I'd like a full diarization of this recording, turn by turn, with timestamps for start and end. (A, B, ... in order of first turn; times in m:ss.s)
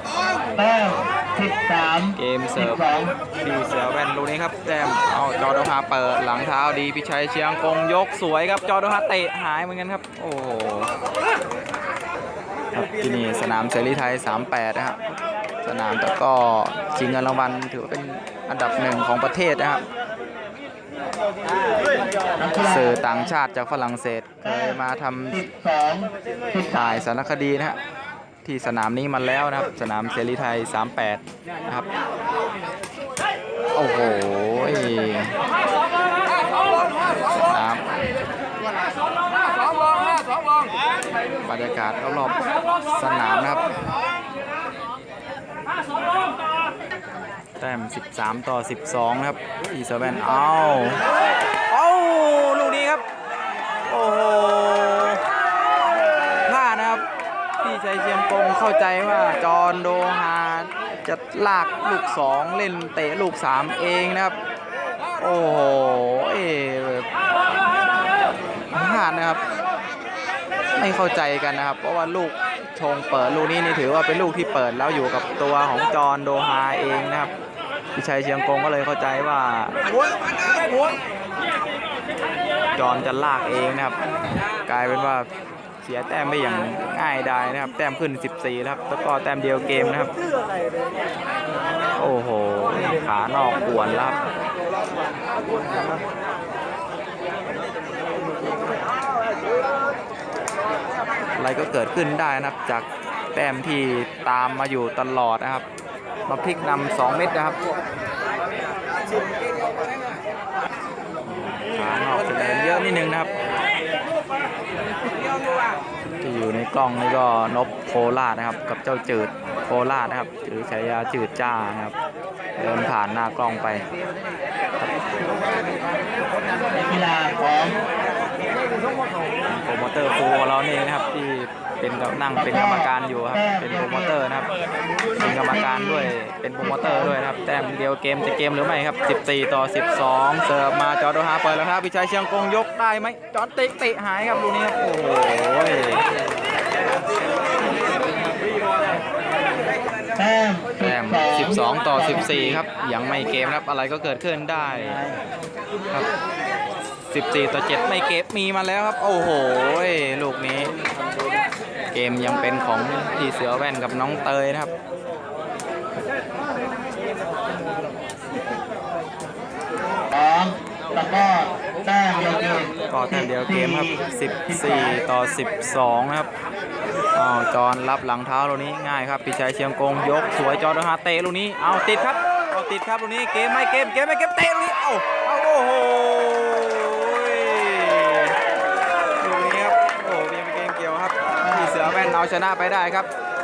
0:00.6-0:03.1 A
0:02.2-0:02.8 B
0:03.4-0:10.9 B
0:12.7-0:15.0 B
0:15.6-0:19.8 B
0:22.4-0:23.3 A
0:22.6-0:25.4 B
0:25.4-0:27.0 A
0:26.7-0:27.8 B
0:28.4-0:31.9 B
0:33.8-0:35.4 B
0:37.2-0:38.0 B
0:41.4-0:43.6 B
0:47.6-0:51.0 B
0:51.7-0:53.0 B
0:53.9-0:55.2 B
0:56.4-0:57.0 B
0:57.6-1:04.4 B
1:05.2-1:07.1 B
1:08.7-1:09.4 B
1:10.8-1:17.3 B
1:18.0-1:19.8 B
1:22.8-1:24.0 B
1:24.7-1:25.3 B
1:25.8-1:30.1 B
1:32.0-1:34.2 B
1:41.4-1:45.7 B
1:46.3-1:47.6 B
1:51.2-1:53.3 B
1:56.2-2:01.9 B
2:02.6-2:03.9 B
2:06.7-2:07.8 A
2:09.5-2:14.5 B
2:12.4-2:14.1 A
2:15.2-2:26.0 B
2:15.4-2:16.1 A
2:16.7-2:17.0 A
2:30.2-2:32.6 A
2:30.8-2:35.0 B
2:37.1-2:40.8 B
2:41.9-2:44.7 B
2:50.1-2:55.0 A
2:52.9-2:56.3 B
2:57.2-3:08.4 B
3:09.2-3:13.1 B
3:11.4-3:12.1 A